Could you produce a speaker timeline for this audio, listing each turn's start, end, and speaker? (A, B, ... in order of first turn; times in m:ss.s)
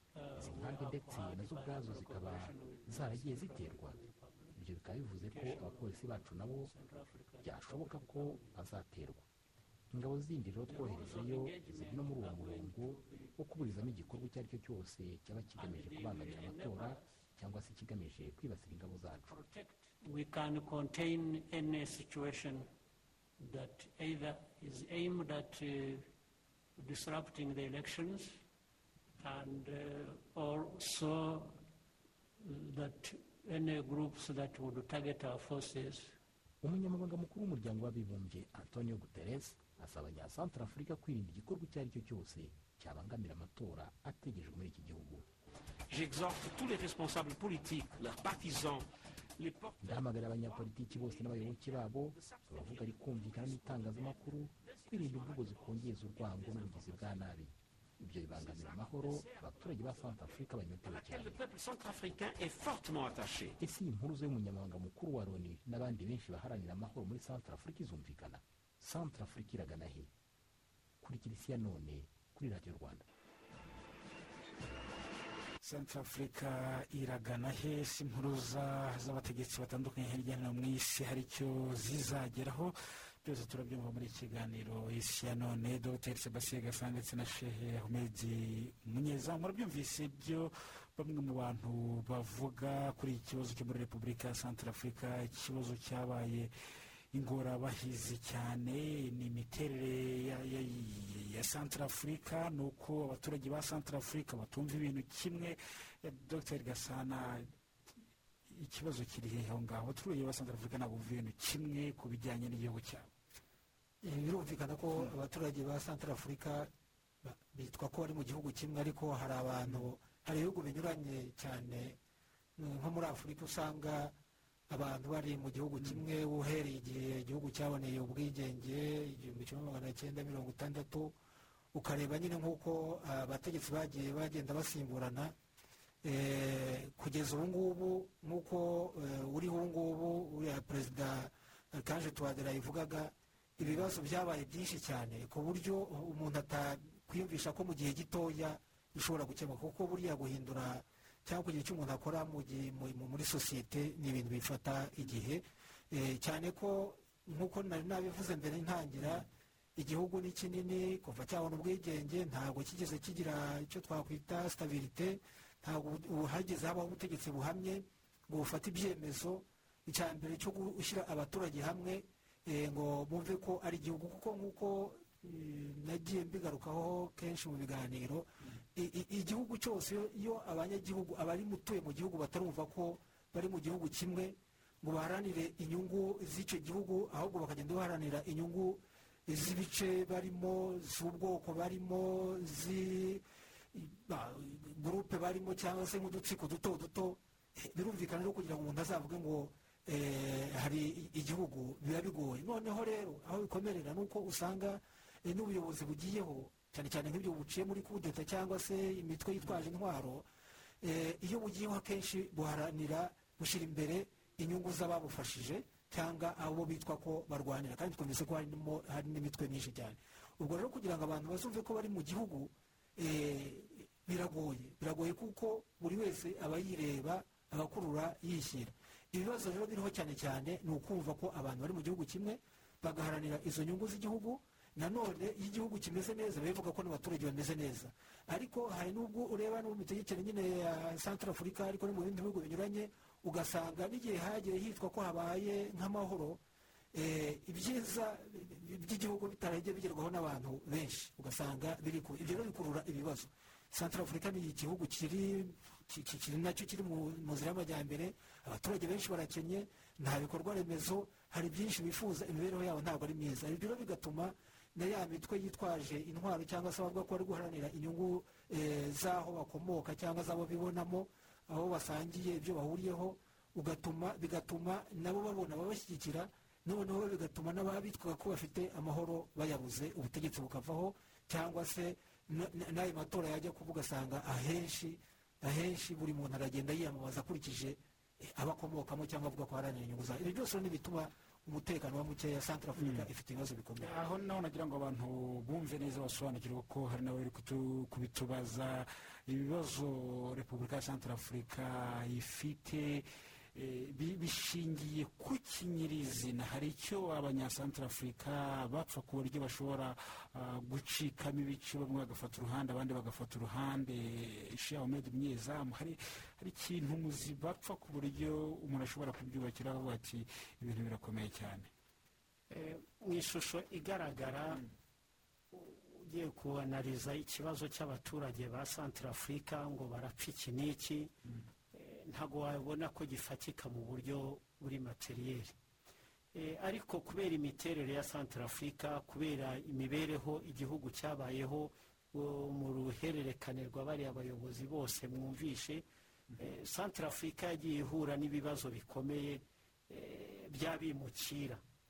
0:00.2-0:04.6 A
0:00.3-0:04.0 B
0:04.6-0:06.7 B
0:05.3-0:08.6 A
0:07.4-0:09.3 B
0:09.9-0:19.3 B
0:10.6-0:13.9 A
0:15.5-0:17.0 A
0:19.2-0:22.7 A
0:23.4-0:26.0 A
0:26.8-0:28.3 A
0:29.2-0:31.6 A
0:32.4-0:36.2 A
0:36.6-0:45.2 B
0:45.9-0:50.3 C
0:49.8-1:01.4 B
0:56.9-0:57.2 A
1:00.8-1:03.6 C
1:03.6-1:10.1 B
1:11.0-1:13.0 B
1:15.6-1:36.5 D
1:37.1-1:47.5 D
1:48.5-1:53.1 D
1:54.0-1:56.7 E
1:57.2-2:02.0 E
1:59.6-1:59.9 D
2:02.6-2:04.1 E
2:04.7-2:11.2 E
2:05.8-2:06.0 D
2:11.7-2:15.3 E
2:16.0-3:30.3 E
3:30.8-4:06.4 E
4:06.9-4:53.9 E
4:52.8-4:53.1 D
4:53.8-5:21.7 D
5:22.5-5:24.6 F
5:25.5-5:31.1 F
5:31.7-5:35.6 F
5:36.3-5:45.8 F
5:46.4-5:51.6 F